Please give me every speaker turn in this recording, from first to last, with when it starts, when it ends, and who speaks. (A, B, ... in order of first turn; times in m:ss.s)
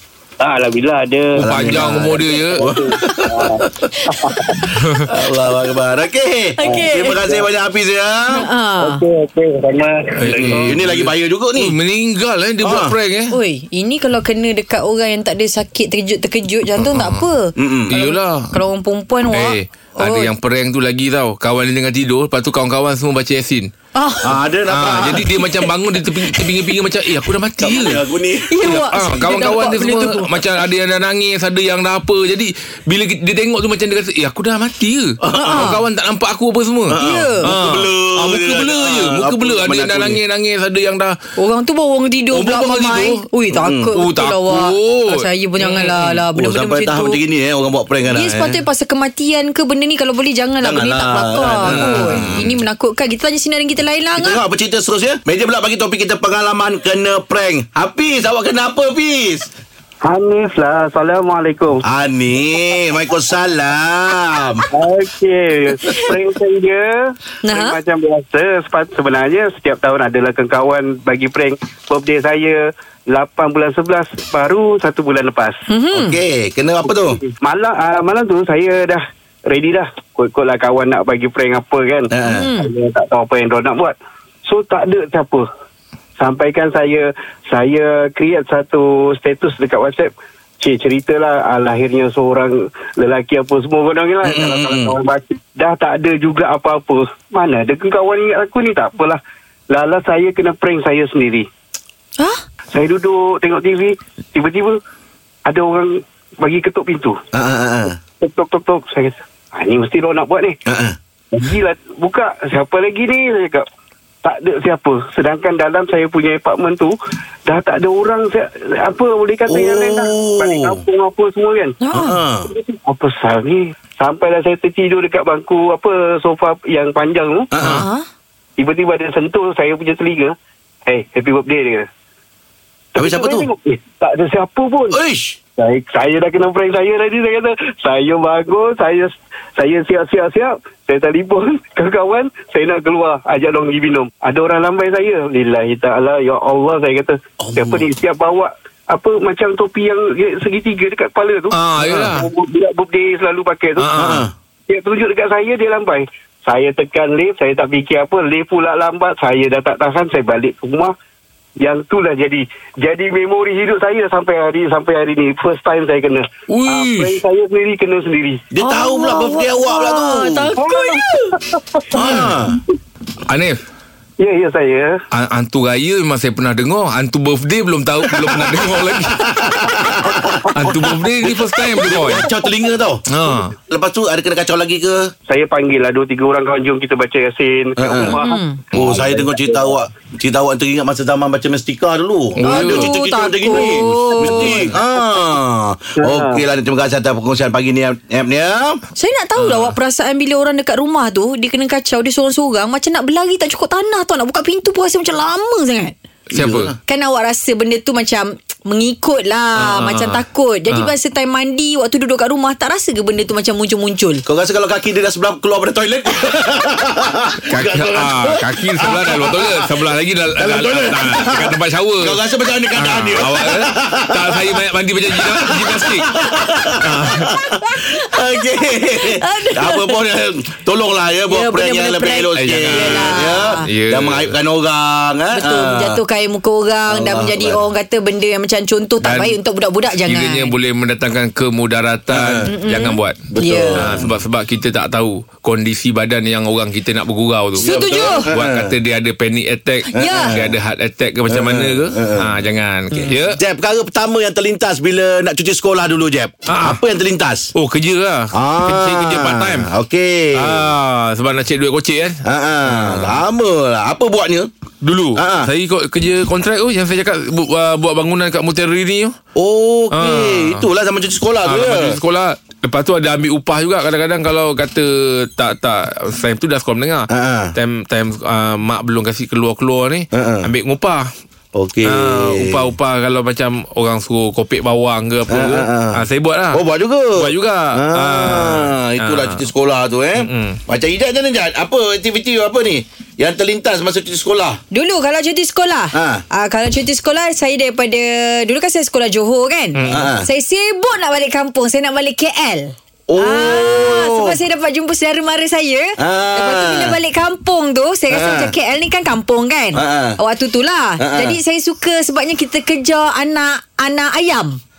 0:00.4-0:04.7 A
0:01.4-0:02.6 B
0:01.4-0:03.9 C
0:04.6-0:08.4 C
0:04.8-0:05.1 B
0:06.6-0:07.2 D
0:06.6-0:07.4 A
0:08.3-0:09.0 D
0:08.8-0:10.7 A
0:10.2-0:13.3 B
0:10.3-0:11.8 C
0:12.6-0:12.9 C
0:13.3-0:20.3 D
0:16.8-0:17.2 B
0:17.6-0:17.9 C
0:17.9-0:18.5 B
0:19.3-0:23.7 B
0:23.9-0:24.3 D
0:24.2-0:25.6 C
0:24.7-0:28.0 B
0:27.6-0:28.7 C
0:28.5-0:30.3 D
0:28.6-0:41.1 B
0:35.2-0:35.8 C
0:35.3-0:35.8 D
0:36.9-0:40.2 C
0:37.0-0:37.5 D
0:41.4-0:47.2 D
0:42.3-0:43.2 B
0:43.5-0:44.0 C
0:43.9-0:46.1 B
0:46.3-0:48.6 C
0:48.1-0:54.4 D
0:50.6-0:52.6 C
0:51.7-0:52.3 B
0:54.2-0:59.5 C
1:00.0-1:01.8 E
1:01.8-1:04.6 C
1:04.8-1:15.6 E
1:07.4-1:07.8 D
1:15.7-1:16.2 D
1:15.9-1:17.2 C
1:16.9-1:23.9 E
1:22.1-1:22.5 C
1:22.2-1:22.7 D
1:24.4-1:25.4 E
1:26.2-1:39.2 E
1:34.2-1:35.0 C
1:39.7-1:41.5 E
1:42.7-1:44.8 E
1:45.4-1:47.2 E
1:47.3-1:48.0 C
1:48.2-1:50.6 E
1:50.6-1:51.0 C
1:51.3-1:53.6 E
1:54.2-1:56.9 E
1:57.4-2:01.8 E
1:59.5-2:00.8 C
2:01.8-2:02.2 D
2:01.9-2:02.5 C
2:02.4-2:07.5 E
2:07.5-2:07.8 C
2:07.6-2:08.1 D
2:08.6-2:10.3 E
2:10.8-2:11.9 E
2:12.9-2:15.0 E
2:13.0-2:13.5 C
2:14.9-2:15.4 C
2:15.6-2:33.9 E
2:27.4-2:27.8 C
2:31.5-2:32.3 B
2:33.8-2:34.2 B
2:33.9-2:34.3 C
2:34.7-2:40.9 E
2:41.6-2:48.4 E
2:46.5-2:47.2 B
2:48.5-2:50.5 C
2:48.6-2:51.4 D
2:50.6-2:51.9 E
2:51.9-2:52.6 C
2:52.0-2:52.3 B
2:53.3-2:53.6 B
2:54.2-2:55.0 E
2:55.1-2:59.3 B
2:58.2-3:03.1 C
3:00.5-3:02.2 B
3:03.1-3:03.5 B
3:03.6-3:05.1 C
3:05.3-3:09.7 E
3:07.8-3:08.2 C
3:08.2-3:08.6 D
3:08.7-3:18.8 C
3:12.4-3:12.9 B
3:12.4-3:14.7 D
3:13.5-3:14.6 B
3:16.0-3:16.4 E
3:19.0-3:26.0 D
3:19.4-3:19.7 B
3:26.3-3:26.7 B
3:26.3-3:26.7 C
3:26.9-3:34.2 D
3:29.6-3:30.9 B
3:34.2-3:39.8 C
3:37.5-3:42.2 B
3:40.4-3:56.0 C
3:42.7-3:46.1 B
3:46.8-3:47.3 B
3:47.5-3:50.0 D
3:51.3-3:53.7 D
3:52.4-3:54.3 B
3:55.3-4:00.5 D
3:56.9-3:57.6 C
3:59.0-3:59.4 B
4:00.0-4:03.2 B
4:02.1-4:02.5 C
4:02.5-4:03.9 D
4:03.3-4:04.1 C
4:03.8-4:13.4 B
4:07.6-4:08.7 C
4:07.6-4:08.3 D
4:09.9-4:10.4 D
4:09.9-4:10.6 C
4:11.3-4:12.3 C
4:12.9-4:17.5 C
4:16.5-4:16.8 B
4:17.5-4:19.7 B
4:18.3-4:20.7 C
4:20.4-4:23.2 B
4:22.2-4:24.5 C
4:24.8-4:29.2 B
4:25.1-4:25.5 C
4:29.4-4:32.0 C
4:29.9-4:30.6 B
4:31.4-4:41.1 B
4:37.1-4:37.5 C
4:40.1-4:40.5 C
4:41.5-4:42.7 C
4:41.8-4:46.6 B
4:45.3-4:54.6 C
4:47.1-4:49.4 B
4:50.2-4:50.6 B
4:54.7-5:14.6 D
4:55.9-4:56.2 C
4:59.7-5:00.1 B
4:59.8-5:00.3 C
5:03.1-5:04.4 C
5:06.0-5:07.0 C
5:08.1-5:08.5 C
5:09.7-5:10.2 C
5:11.0-5:11.4 C